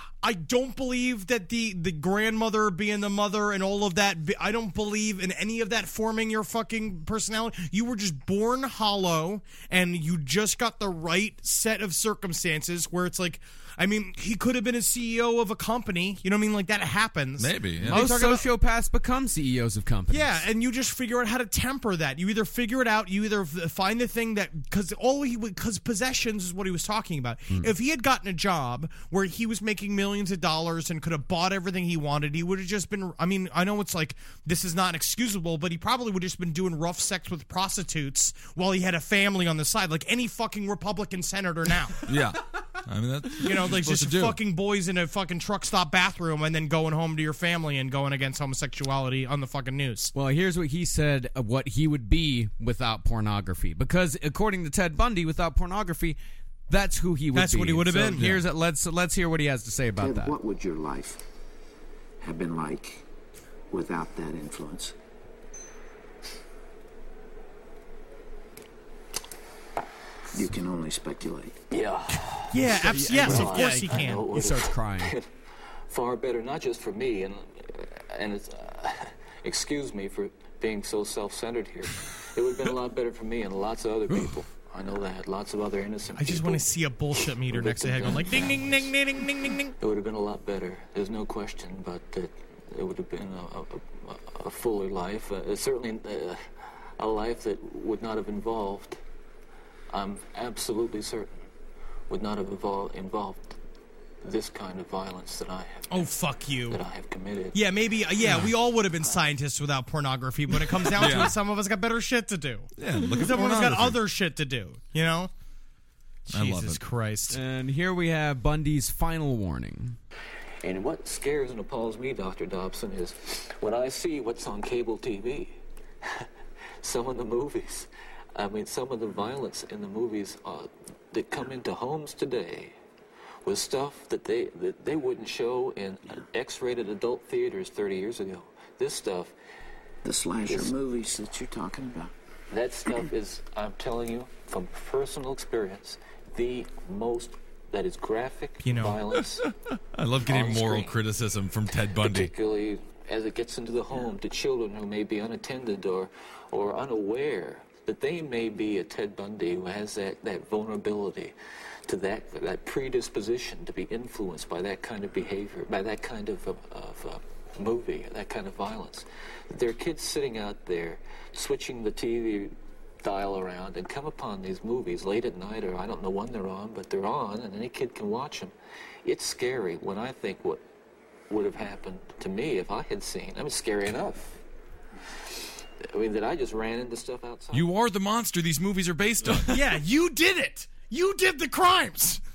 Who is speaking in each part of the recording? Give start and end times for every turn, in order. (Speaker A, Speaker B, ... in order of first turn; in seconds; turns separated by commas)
Speaker A: 0.2-18.5, Speaker B: 17.4-18.0, Speaker C: 17.8-20.5, Speaker A: 20.1-42.0, Speaker B: 42.0-44.4, Speaker A: 43.4-50.1, Speaker C: 50.1-56.2, Speaker C: 56.7-60.4, Speaker A: 57.3-58.4, Speaker D: 60.0-61.2, Speaker D: 62.2-63.0, Speaker D: 63.7-64.9, Speaker D: 70.3-71.5, Speaker E: 71.7-75.3, Speaker A: 72.5-74.3, Speaker C: 72.8-75.1, Speaker E: 75.9-86.6, Speaker A: 86.1-89.7, Speaker E: 87.5-89.0, Speaker E: 89.8-96.4, Speaker E: 97.0-99.0, Speaker E: 99.9-101.4, Speaker E: 102.1-103.6, Speaker E: 104.2-106.2, Speaker A: 105.9-106.8, Speaker E: 106.7-107.6, Speaker A: 107.5-115.3, Speaker B: 111.0-111.3, Speaker B: 112.8-114.0, Speaker B: 116.3-116.8, Speaker A: 116.3-117.4, Speaker C: 117.3-120.0, Speaker E: 120.6-126.2, Speaker E: 126.8-132.7, Speaker E: 133.4-139.3, Speaker D: 140.0-142.1, Speaker E: 140.4-140.8, Speaker E: 142.5-149.5, Speaker A: 148.6-149.0, Speaker B: 149.9-152.3, Speaker E: 150.2-151.0, Speaker E: 151.9-161.3, Speaker E: 161.8-178.5, Speaker E: 179.0-180.6, Speaker E: 181.3-184.3, Speaker E: 185.8-187.7, Speaker B: 187.5-189.5, Speaker A: 189.5-192.2